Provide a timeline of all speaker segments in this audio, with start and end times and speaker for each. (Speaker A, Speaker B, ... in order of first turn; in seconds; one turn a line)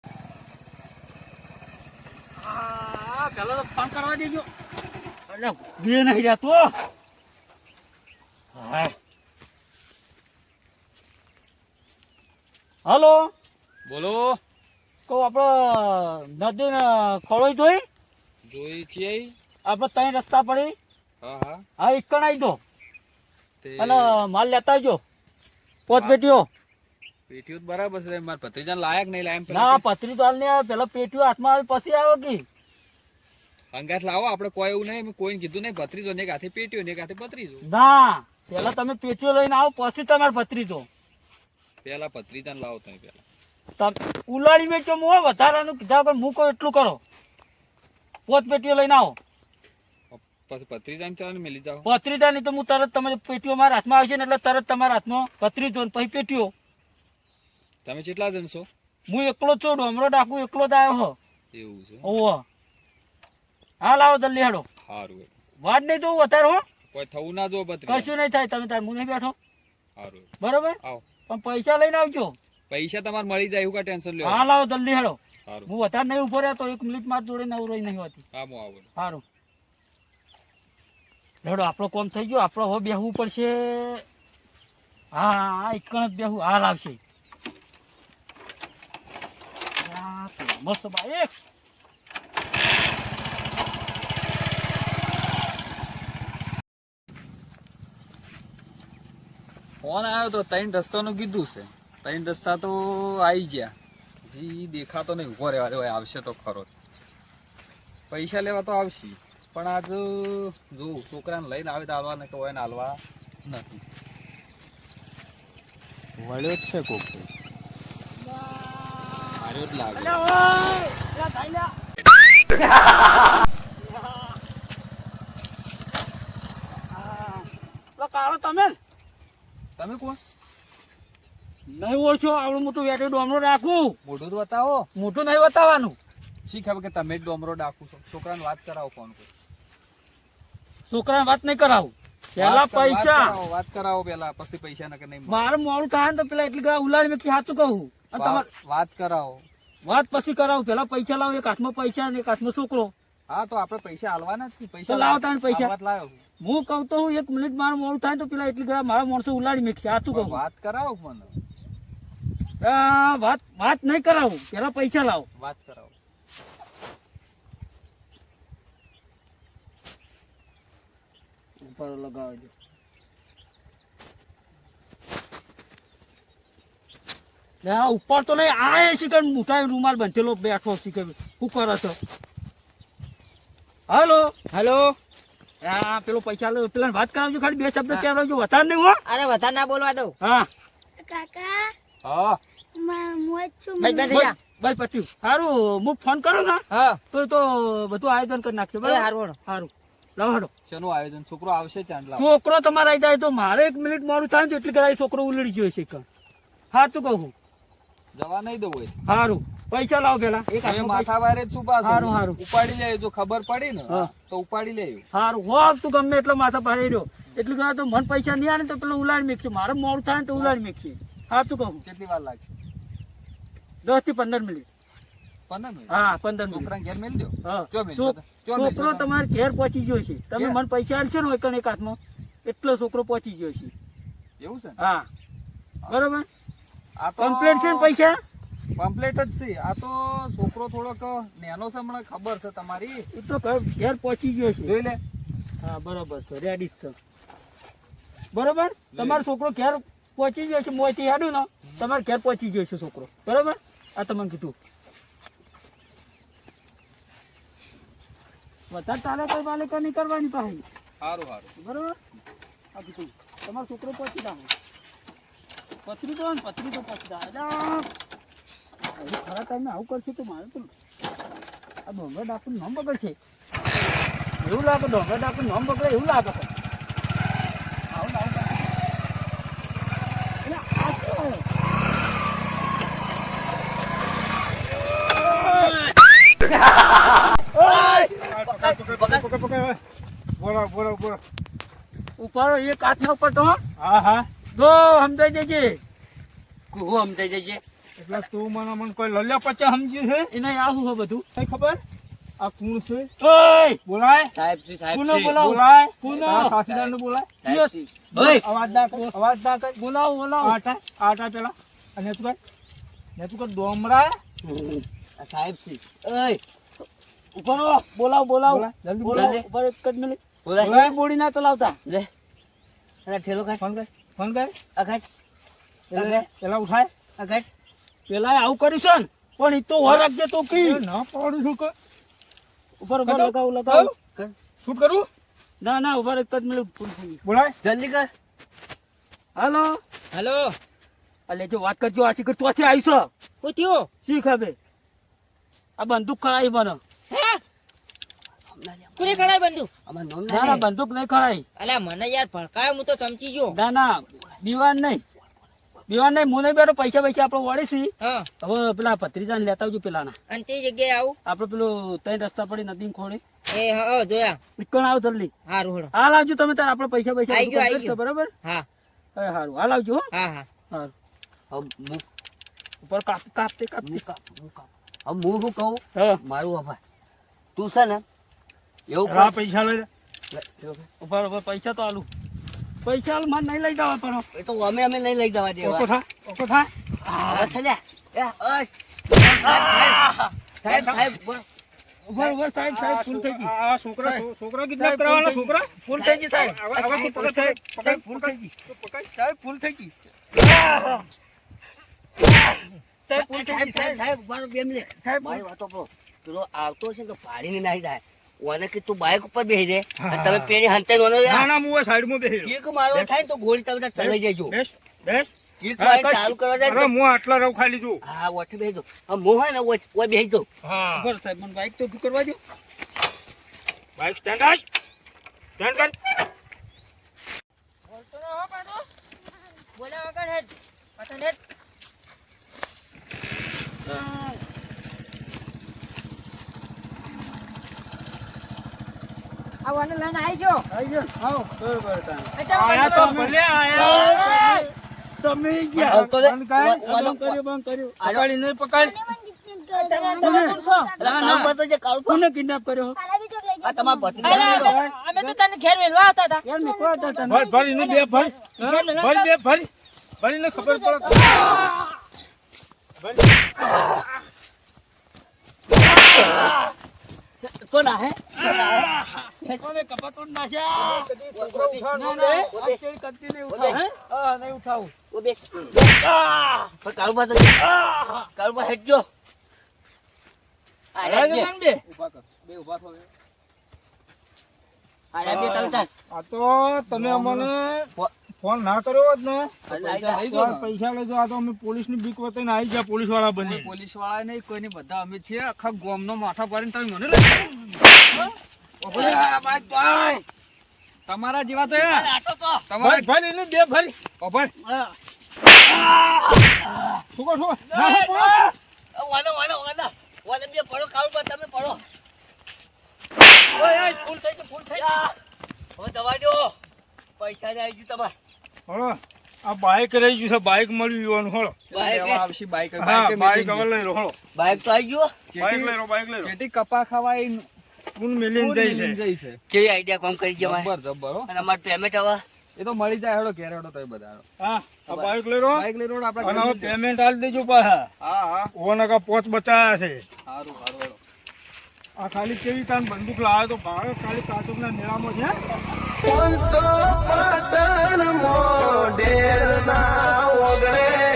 Speaker A: 2.4-4.5
Speaker A: 5.3-6.7
Speaker A: 8.5-8.9
Speaker A: 12.8-13.3
Speaker B: 13.8-14.4
Speaker A: 15.1-17.8
Speaker B: 18.4-19.4
Speaker A: 19.6-20.7
Speaker B: 21.2-21.6
Speaker A: 21.8-22.6
Speaker B: 23.6-24.1
Speaker A: 23.8-25.0
Speaker A: 25.9-26.5
Speaker B: 25.9-26.2
Speaker B: 27.3-29.8
Speaker A: 29.5-32.4
Speaker B: 33.7-37.6
Speaker A: 37.6-40.9
Speaker B: 41.8-43.2
Speaker A: 43.8-47.0
Speaker A: 48.3-49.2
Speaker B: 50.1-51.9
Speaker A: 51.8-56.5
Speaker B: 57.8-58.7
Speaker A: 59.1-61.2
Speaker B: 61.5-62.1
Speaker A: 62.0-62.4
Speaker A: 63.8-64.7
Speaker B: 64.8-65.3
Speaker A: 65.6-66.6
Speaker B: 66.9-68.1
Speaker A: 67.9-69.3
Speaker B: 70.0-70.3
Speaker A: 70.4-72.3
Speaker B: 72.7-74.5
Speaker A: 74.2-78.2
Speaker B: 78.3-78.9
Speaker A: 79.0-79.2
Speaker A: 81.4-84.0
Speaker A: 85.1-87.0
Speaker A: 89.8-91.3
Speaker B: 99.8-103.7
Speaker B: 104.2-106.7
Speaker B: 108.1-113.8
Speaker B: 116.2-117.3
Speaker A: 118.3-119.4
Speaker B: 119.4-120.2
Speaker A: 119.9-121.7
Speaker A: 123.8-124.4
Speaker A: 126.9-128.8
Speaker B: 129.8-130.2
Speaker A: 131.7-134.0
Speaker B: 134.0-134.9
Speaker A: 134.9-136.0
Speaker B: 136.4-139.3
Speaker A: 140.9-143.4
Speaker B: 142.3-145.5
Speaker A: 145.3-148.4
Speaker B: 148.1-149.4
Speaker A: 149.8-152.9
Speaker B: 153.3-156.2
Speaker A: 154.9-155.7
Speaker A: 156.4-160.4
Speaker B: 160.1-161.3
Speaker A: 162.6-165.2
Speaker B: 165.3-165.9
Speaker A: 171.6-172.5
Speaker A: 177.6-181.9
Speaker A: 183.9-184.3
Speaker C: 184.5-184.9
Speaker A: 185.6-189.0
Speaker C: 189.1-190.1
Speaker A: 190.2-190.5
Speaker D: 191.0-191.7
Speaker B: 192.0-192.4
Speaker D: 192.8-194.3
Speaker C: 193.8-194.3
Speaker A: 194.1-200.5
Speaker C: 196.7-197.0
Speaker C: 198.8-199.4
Speaker B: 200.7-202.2
Speaker A: 202.1-206.0
Speaker A: 206.7-207.3
Speaker B: 208.1-208.9
Speaker A: 209.0-211.1
Speaker B: 210.6-215.0
Speaker A: 211.8-212.4
Speaker A: 215.1-221.8
Speaker B: 221.8-222.5
Speaker A: 223.8-224.7
Speaker B: 225.5-229.1
Speaker A: 225.9-226.7
Speaker A: 227.4-233.7
Speaker B: 234.4-234.8
Speaker A: 234.8-235.1
Speaker A: 235.9-236.2
Speaker B: 237.0-237.9
Speaker A: 237.2-238.2
Speaker B: 238.8-243.1
Speaker A: 243.1-244.7
Speaker B: 244.6-245.0
Speaker A: 245.6-246.9
Speaker A: 248.3-254.5
Speaker B: 248.9-249.2
Speaker A: 258.7-260.6
Speaker B: 261.0-261.5
Speaker A: 261.6-261.9
Speaker A: 262.7-264.5
Speaker A: 265.8-267.9
Speaker A: 268.9-270.7
Speaker A: 271.9-273.1
Speaker A: 274.4-276.5
Speaker A: 277.9-278.6
Speaker A: 280.4-281.4
Speaker E: 287.6-289.3
Speaker A: 287.6-287.9
Speaker F: 288.1-289.8
Speaker F: 290.4-291.2
Speaker A: 292.2-293.6
Speaker F: 293.8-294.3
Speaker A: 294.5-295.8
Speaker E: 296.7-297.6
Speaker F: 298.0-300.3
Speaker A: 300.3-301.2
Speaker F: 301.3-301.8
Speaker F: 302.4-303.1
Speaker A: 303.2-303.8
Speaker F: 303.8-304.3
Speaker E: 304.3-305.4
Speaker A: 304.9-306.5
Speaker F: 305.4-307.4
Speaker E: 306.0-308.5
Speaker A: 307.4-307.7
Speaker F: 308.1-309.8
Speaker A: 308.8-309.1
Speaker A: 309.7-310.6
Speaker F: 310.4-312.4
Speaker F: 313.1-314.2
Speaker E: 314.4-316.4
Speaker A: 317.3-321.8
Speaker F: 318.5-319.3
Speaker E: 319.1-319.4
Speaker E: 320.4-320.8
Speaker F: 320.6-320.9
Speaker E: 323.1-323.6
Speaker F: 323.6-324.6
Speaker E: 324.7-325.0
Speaker E: 325.9-326.3
Speaker F: 325.9-326.9
Speaker E: 327.2-327.4
Speaker A: 328.1-330.8
Speaker F: 329.8-331.7
Speaker A: 332.8-333.9
Speaker F: 333.0-333.9
Speaker F: 334.6-335.1
Speaker A: 335.6-337.2
Speaker F: 337.2-337.5
Speaker E: 337.6-338.1
Speaker A: 339.3-339.8
Speaker C: 340.1-340.6
Speaker A: 341.3-343.1
Speaker C: 343.4-343.9
Speaker A: 344.0-344.6
Speaker A: 345.8-346.8
Speaker C: 347.1-347.4
Speaker E: 348.5-349.3
Speaker C: 348.9-349.7
Speaker E: 349.9-350.6
Speaker A: 350.3-351.4
Speaker C: 351.6-353.6
Speaker A: 353.5-355.0
Speaker A: 355.9-360.1
Speaker C: 358.0-358.3
Speaker C: 360.3-361.1
Speaker A: 361.2-363.2
Speaker C: 363.5-364.4
Speaker A: 364.6-365.3
Speaker C: 365.4-365.9
Speaker A: 365.9-368.3
Speaker C: 367.3-368.6
Speaker A: 369.1-370.1
Speaker C: 370.1-370.5
Speaker E: 371.5-372.0
Speaker A: 372.8-374.0
Speaker E: 373.8-376.8
Speaker A: 375.9-376.2
Speaker E: 377.6-378.0
Speaker E: 378.9-379.4
Speaker F: 379.0-379.9
Speaker E: 380.3-380.9
Speaker A: 381.0-382.1
Speaker A: 382.8-384.2
Speaker E: 384.3-385.9
Speaker F: 385.6-386.7
Speaker E: 387.0-391.4
Speaker F: 390.7-391.1
Speaker A: 392.1-393.5
Speaker F: 392.7-395.7
Speaker A: 394.8-396.6
Speaker E: 395.9-398.5
Speaker F: 396.4-399.0
Speaker E: 399.4-399.9
Speaker A: 400.4-401.1
Speaker A: 403.1-404.0
Speaker E: 403.1-411.5
Speaker A: 405.0-405.4
Speaker F: 409.9-410.5
Speaker F: 411.2-412.5
Speaker E: 412.4-414.5
Speaker F: 414.0-415.3
Speaker E: 415.6-416.9
Speaker A: 415.8-416.3
Speaker F: 416.6-418.0
Speaker E: 418.0-420.4
Speaker F: 420.6-421.1
Speaker A: 420.9-422.4
Speaker F: 424.0-424.6
Speaker F: 425.6-425.9
Speaker C: 427.9-428.8
Speaker C: 429.7-431.4
Speaker A: 433.9-434.4
Speaker C: 439.6-440.6
Speaker A: 440.7-441.2
Speaker A: 441.9-442.1
Speaker C: 442.4-444.7
Speaker F: 442.5-443.9
Speaker A: 442.9-443.2
Speaker E: 443.7-444.6
Speaker A: 443.8-444.6
Speaker A: 445.2-446.0
Speaker F: 445.7-446.9
Speaker E: 445.8-447.4
Speaker A: 446.8-448.0
Speaker E: 448.0-448.3
Speaker F: 448.0-449.0
Speaker D: 448.8-451.5
Speaker A: 449.8-451.5
Speaker C: 449.9-450.7
Speaker E: 451.0-452.2
Speaker A: 452.1-453.0
Speaker D: 452.9-454.6
Speaker E: 453.6-454.8
Speaker C: 454.2-456.4
Speaker F: 454.2-455.3
Speaker A: 454.2-454.6
Speaker A: 456.4-457.4
Speaker D: 456.6-458.3
Speaker F: 457.2-459.7
Speaker C: 457.8-459.3
Speaker F: 460.2-461.5
Speaker D: 460.5-461.4
Speaker F: 463.0-463.3
Speaker E: 465.9-466.7
Speaker E: 467.4-469.6
Speaker A: 469.6-471.1
Speaker F: 470.8-472.6
Speaker E: 471.3-472.8
Speaker A: 471.9-474.9
Speaker E: 473.5-473.8
Speaker E: 475.1-475.8
Speaker A: 475.8-476.7
Speaker E: 476.8-479.1
Speaker A: 477.6-478.3
Speaker E: 480.9-481.5
Speaker F: 481.0-481.8
Speaker B: 481.9-483.1
Speaker E: 485.1-485.9
Speaker F: 485.2-493.7
Speaker B: 487.0-487.4
Speaker E: 489.7-490.2
Speaker B: 489.7-490.7
Speaker B: 493.4-497.6
Speaker B: 498.8-499.3
Speaker E: 498.9-500.2
Speaker B: 501.1-502.1
Speaker E: 501.7-502.7
Speaker B: 502.7-503.1
Speaker F: 502.8-503.9
Speaker B: 504.2-504.5
Speaker E: 506.0-507.0
Speaker F: 507.1-508.4
Speaker A: 507.7-508.4
Speaker E: 508.9-511.8
Speaker A: 513.5-515.1
Speaker E: 514.7-515.1
Speaker E: 515.8-516.5
Speaker E: 517.2-518.1
Speaker F: 518.7-521.6
Speaker B: 521.7-523.7
Speaker E: 521.7-522.2
Speaker F: 522.8-524.1
Speaker E: 524.3-525.2
Speaker B: 525.3-527.5
Speaker F: 525.4-526.3
Speaker F: 528.0-529.0
Speaker B: 528.3-529.4
Speaker E: 529.5-530.7
Speaker B: 530.4-531.3
Speaker E: 531.3-532.2
Speaker B: 532.5-534.2
Speaker F: 534.4-535.6
Speaker B: 535.5-536.8
Speaker F: 536.2-537.9
Speaker B: 538.0-538.5
Speaker F: 538.5-540.0
Speaker B: 540.3-541.0
Speaker F: 542.0-545.4